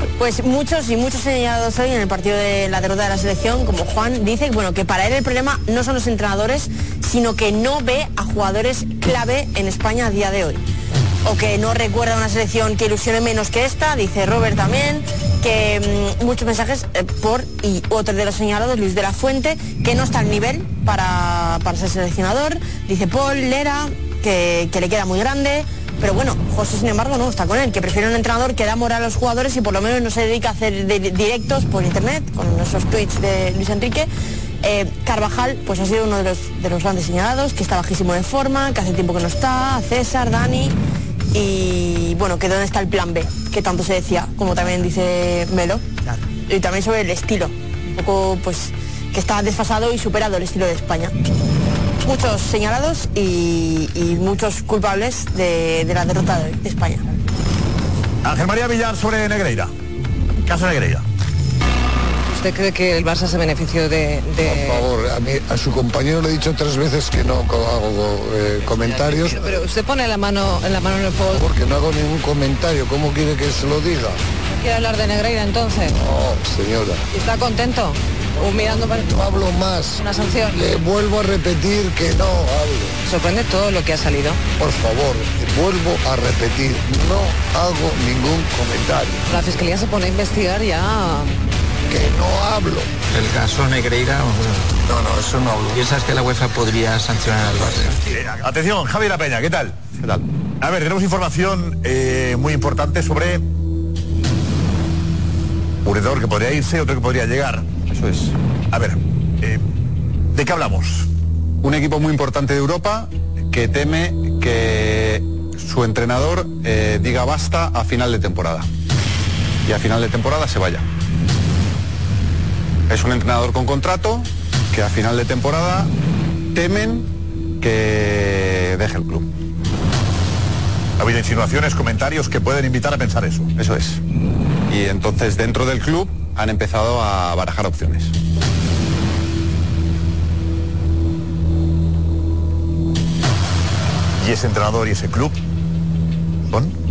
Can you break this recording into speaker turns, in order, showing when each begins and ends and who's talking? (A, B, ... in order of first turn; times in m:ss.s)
0:00.2-0:10.6 A
0:11.2-0:34.1 A
0:34.6-0:40.8 A
0:41.3-0:45.9 A
0:46.5-0:51.1 A
0:52.0-0:57.0 A
0:58.2-0:59.7 B
1:00.4-1:01.0 B
1:02.3-1:04.8 C
1:04.4-1:09.5 D
1:09.3-1:11.4 C
1:11.3-1:14.2 D
1:14.5-1:16.0 C
1:15.9-1:17.1 D
1:17.1-1:19.3 C
1:18.9-1:23.0 D
1:20.0-1:20.7 C
1:23.0-1:24.4 C
1:24.6-1:29.3 D
1:29.3-1:31.3 C
1:31.9-1:32.9 D
1:33.1-1:34.8 E
1:34.9-1:35.8 D
1:35.7-1:38.0 E
1:38.1-1:39.8 B
1:40.0-1:40.2 F
1:40.6-1:43.4 B
1:45.8-1:47.7 B
1:47.9-1:48.3 F
1:48.7-1:49.6 B
1:50.3-1:51.1 B
1:51.6-1:58.7 F
1:59.6-2:00.8 F
2:02.9-2:05.9 F
2:06.5-2:07.1 F
2:07.6-2:09.3 F
2:11.0-2:13.5 B
2:13.6-2:14.0 F
2:14.7-2:18.1 F
2:24.2-2:25.4 B
2:26.5-2:26.7 B